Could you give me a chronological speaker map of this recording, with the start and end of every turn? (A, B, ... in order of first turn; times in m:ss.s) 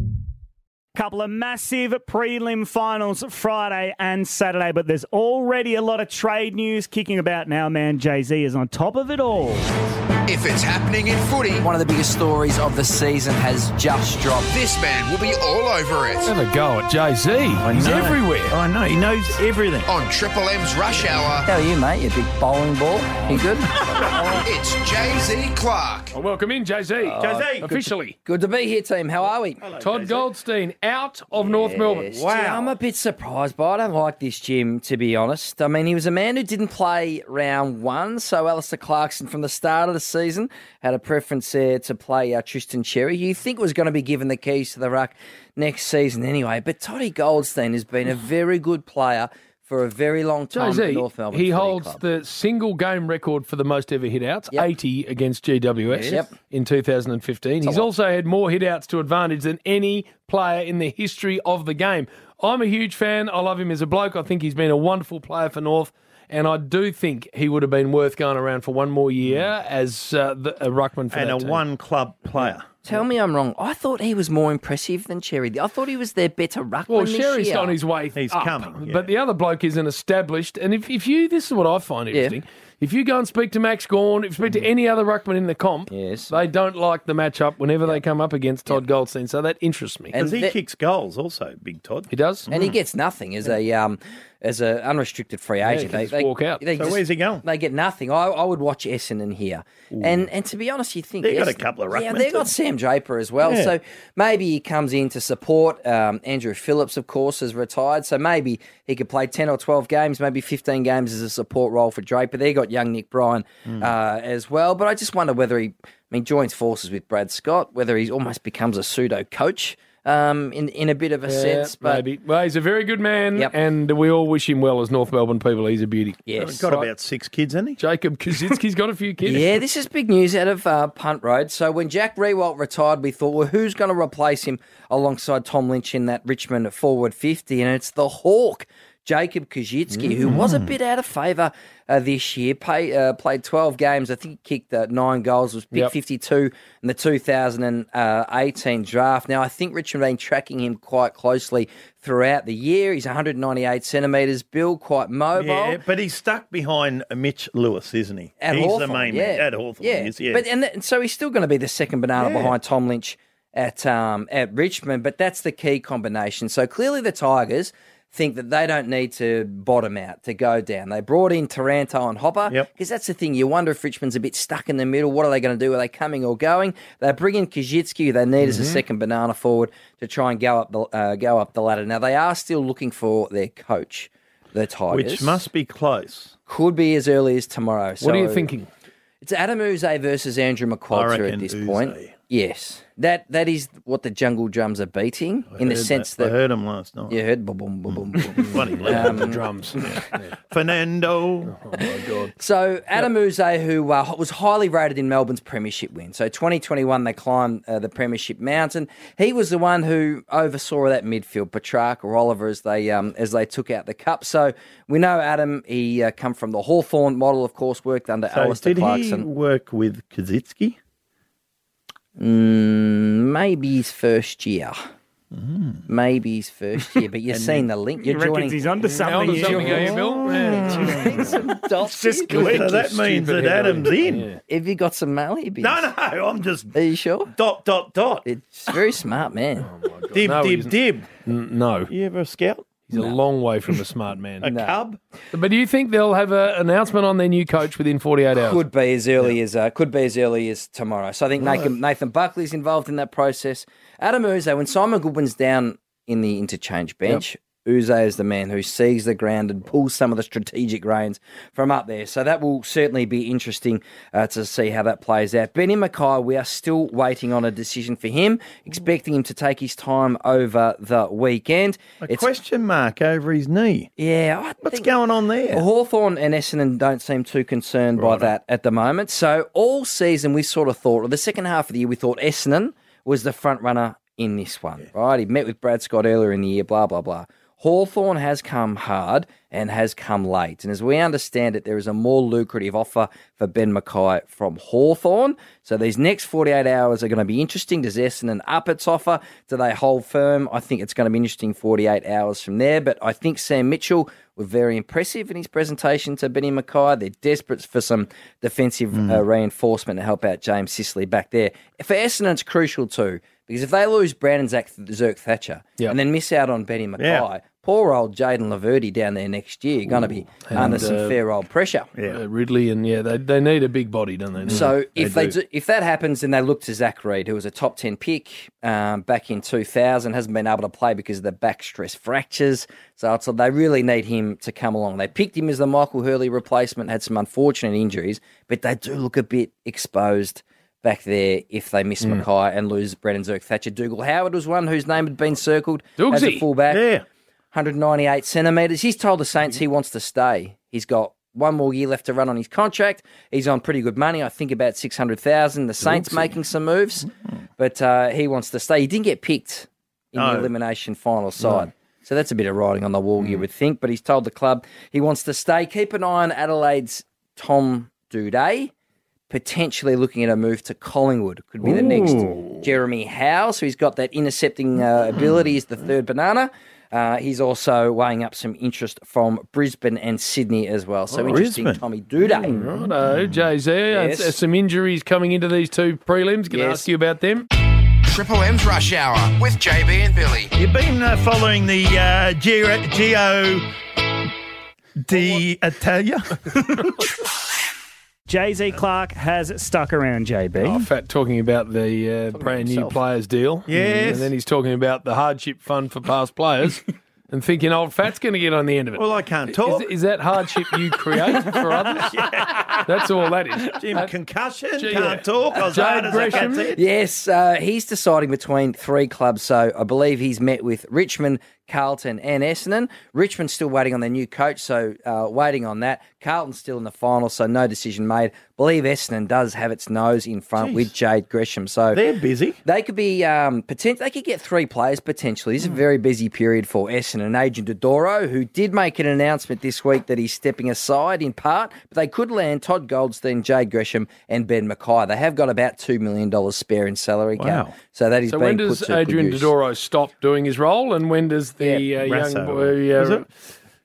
0:01.0-0:09.7 A
0:10.3-0:11.7 B
0:11.6-0:14.7 C
0:14.6-0:16.3 B
0:16.2-0:18.6 D
0:17.6-0:19.9 E
0:19.9-0:21.5 B
0:21.4-0:23.8 C
0:23.9-0:24.4 E
0:24.4-0:26.2 B
0:26.1-0:28.2 D
0:27.0-0:27.5 C
0:27.2-0:27.8 E
0:28.2-0:29.7 C
0:29.6-0:30.3 E
0:29.8-0:32.2 D
0:31.4-0:52.0 C
0:32.1-0:32.8 E
0:50.5-1:11.6 D
0:55.9-0:56.3 C
0:57.6-0:57.9 C
1:09.2-1:09.5 E
1:11.1-1:12.7 E
1:12.8-1:17.8 C
1:16.9-1:30.2 D
1:18.2-1:19.1 E
1:22.1-1:22.4 C
1:25.9-1:26.3 C
1:30.1-1:30.6 C
1:30.1-1:32.8 E
1:32.1-1:32.5 D
1:32.5-2:02.0 C
1:35.6-1:36.6 D
1:36.8-1:37.4 E
1:41.2-1:42.5 E
1:43.4-1:43.8 E
2:01.3-2:06.9 D
2:06.3-2:06.6 C
2:06.4-2:07.8 E
2:07.8-2:09.6 D
2:09.2-2:35.8 C
2:20.0-2:20.3 D
2:20.3-2:20.7 E
2:35.4-2:40.5 E
2:38.4-3:05.4 C
2:42.2-2:42.6 E
2:58.4-2:58.8 D
3:04.9-3:06.3 E
3:06.5-3:08.5 C
3:08.0-3:08.7 D
3:09.2-3:16.4 C
3:10.9-3:12.1 E
3:15.5-3:17.2 E
3:17.1-3:20.0 C
3:17.9-3:19.3 E
3:18.8-3:20.4 D
3:20.5-3:21.6 E
3:21.5-3:22.3 D
3:21.7-3:39.3 C
3:38.3-3:40.8 E
3:42.2-3:44.8 C
3:45.3-3:45.8 E
3:45.9-3:52.6 C
3:47.3-3:47.7 E
3:48.0-3:50.0 A
3:48.8-3:51.3 D
3:50.0-3:51.2 E
3:50.6-3:52.6 A
3:52.3-3:54.4 D
3:52.3-3:54.3 E
3:54.5-3:55.8 C
3:55.6-3:56.7 E
3:56.7-3:57.3 C
3:57.3-3:58.3 E
3:58.2-3:59.7 C
3:59.6-4:01.9 D
4:00.1-4:01.1 E
4:01.9-4:02.8 E
4:02.9-4:04.5 D
4:02.9-4:03.2 C
4:04.4-4:05.0 E
4:04.4-4:04.8 C
4:05.3-4:08.6 D
4:08.4-4:32.3 C
4:32.0-4:33.9 E
4:34.0-4:34.9 C
4:34.6-4:35.7 E
4:35.5-5:21.9 C
4:38.0-4:38.3 E
5:08.9-5:09.2 E
5:17.0-5:17.3 E
5:20.5-5:21.2 D
5:20.6-5:20.8 E
5:22.0-5:22.2 E
5:22.0-5:24.7 D
5:24.5-5:25.4 E
5:24.5-5:46.9 C
5:46.0-5:46.4 D
5:46.7-5:47.0 E
5:47.5-6:08.7 C
5:55.8-5:56.4 E
6:00.2-6:00.5 E
6:01.4-6:01.7 E
6:09.3-6:22.6 C
6:11.6-6:12.6 A
6:21.1-6:21.8 E
6:22.4-6:27.5 D
6:22.6-6:23.5 E
6:23.9-6:24.4 C
6:26.5-6:26.9 C
6:28.0-6:30.5 B
6:30.6-6:33.7 E
6:35.0-6:36.6 E
6:38.3-6:40.9 A
6:40.6-6:54.1 D
6:42.4-6:43.0 C
6:43.7-6:44.3 E
6:49.0-6:49.9 E
6:51.9-6:52.9 E
6:53.6-6:56.8 E
6:54.8-6:56.8 D
6:55.8-7:12.0 C
7:10.6-7:10.9 E
7:11.9-7:12.6 E
7:12.6-7:29.5 C
7:27.4-7:27.8 E
7:28.3-7:33.3 D
7:32.0-7:33.3 E